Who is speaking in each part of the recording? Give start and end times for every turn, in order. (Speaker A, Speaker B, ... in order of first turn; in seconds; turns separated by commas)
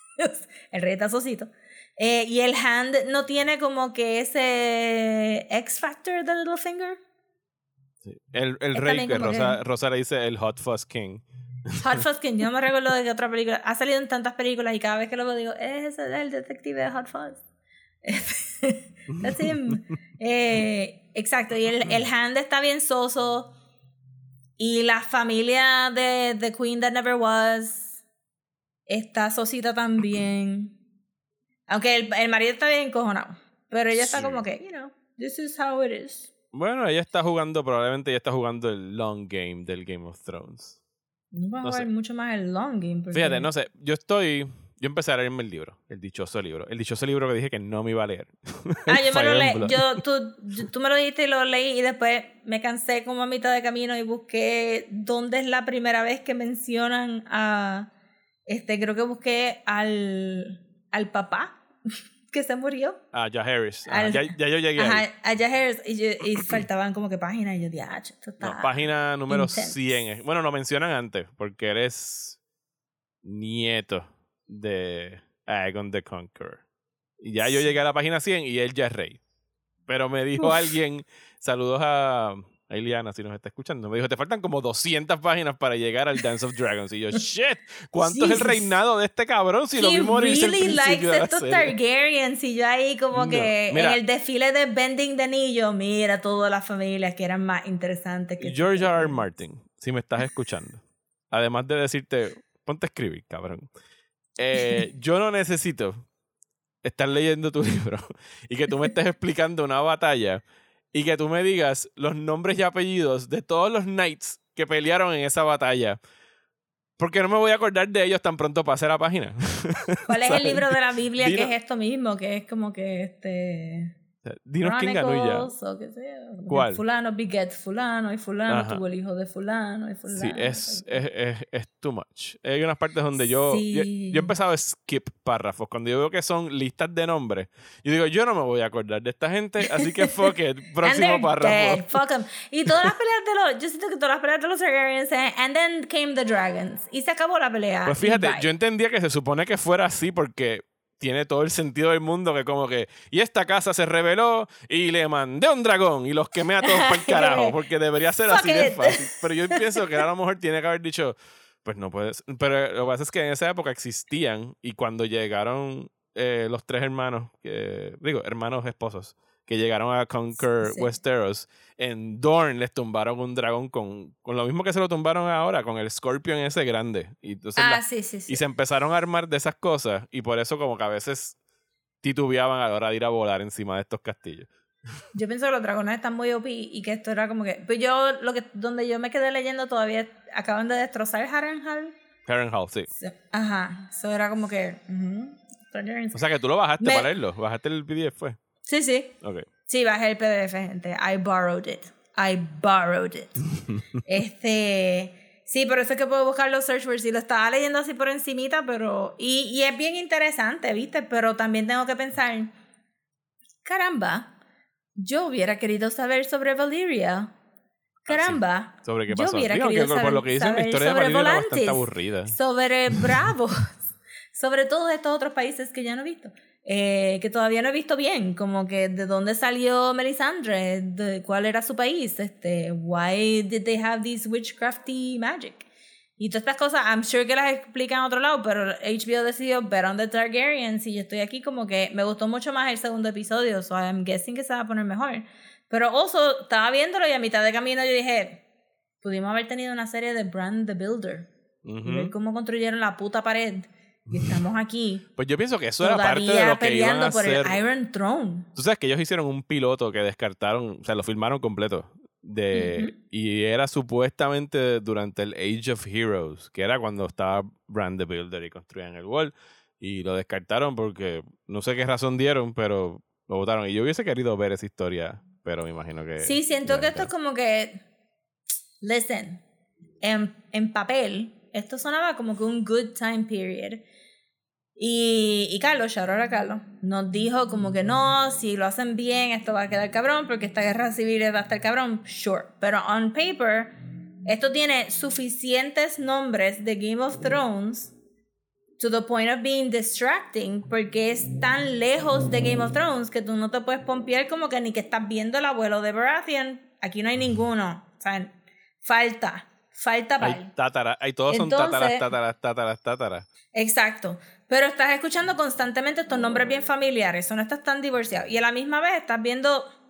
Speaker A: 0.2-7.0, Speaker B: 8.0-11.8, Speaker A: 8.7-9.6, Speaker A: 11.7-17.4, Speaker A: 18.0-23.5, Speaker B: 19.1-19.7, Speaker A: 24.6-28.0, Speaker A: 28.9-30.8, Speaker A: 31.7-36.3, Speaker B: 34.0-34.4, Speaker B: 36.5-40.8, Speaker A: 41.3-43.5, Speaker B: 41.6-41.9, Speaker B: 43.1-50.0, Speaker A: 48.9-57.9, Speaker A: 58.5-61.6, Speaker A: 62.3-63.0, Speaker B: 63.1-65.0, Speaker A: 63.9-69.9, Speaker B: 68.4-72.4, Speaker B: 73.2-76.6, Speaker B: 77.2-79.2, Speaker A: 77.4-77.7, Speaker B: 79.9-91.7, Speaker A: 88.0-88.7, Speaker A: 89.8-99.2, Speaker B: 93.1-94.0, Speaker B: 98.4-103.7, Speaker B: 104.4-106.0, Speaker B: 106.8-116.0, Speaker B: 117.0-121.5, Speaker A: 120.1-123.9, Speaker B: 124.2-125.5, Speaker A: 124.6-131.0, Speaker B: 126.5-126.8, Speaker B: 128.5-128.8, Speaker B: 130.1-141.9, Speaker A: 133.4-134.3, Speaker A: 139.7-140.1, Speaker A: 140.8-148.5, Speaker B: 147.8-181.3, Speaker A: 156.6-157.6, Speaker A: 158.2-160.0, Speaker A: 170.4-170.9, Speaker A: 177.6-178.4, Speaker B: 182.0-184.5, Speaker A: 185.1-191.9, Speaker B: 192.2-192.9, Speaker A: 193.0-196.2, Speaker B: 196.1-198.4, Speaker A: 196.8-197.1, Speaker A: 198.7-199.1, Speaker A: 199.7-203.4, Speaker A: 204.0-212.5, Speaker A: 213.6-214.3, Speaker A: 215.0-217.3, Speaker A: 218.1-235.7, Speaker B: 218.1-222.3, Speaker A: 236.2-248.4, Speaker A: 249.0-251.3, Speaker B: 251.6-252.1, Speaker A: 251.8-255.1, Speaker B: 255.2-257.6, Speaker A: 255.8-258.5, Speaker B: 258.6-277.1, Speaker A: 262.5-262.9, Speaker A: 276.2-277.8, Speaker A: 278.8-279.4, Speaker A: 280.0-283.8, Speaker A: 284.8-297.9, Speaker A: 298.8-310.5, Speaker B: 310.2-313.3, Speaker A: 311.3-312.1, Speaker A: 313.5-319.7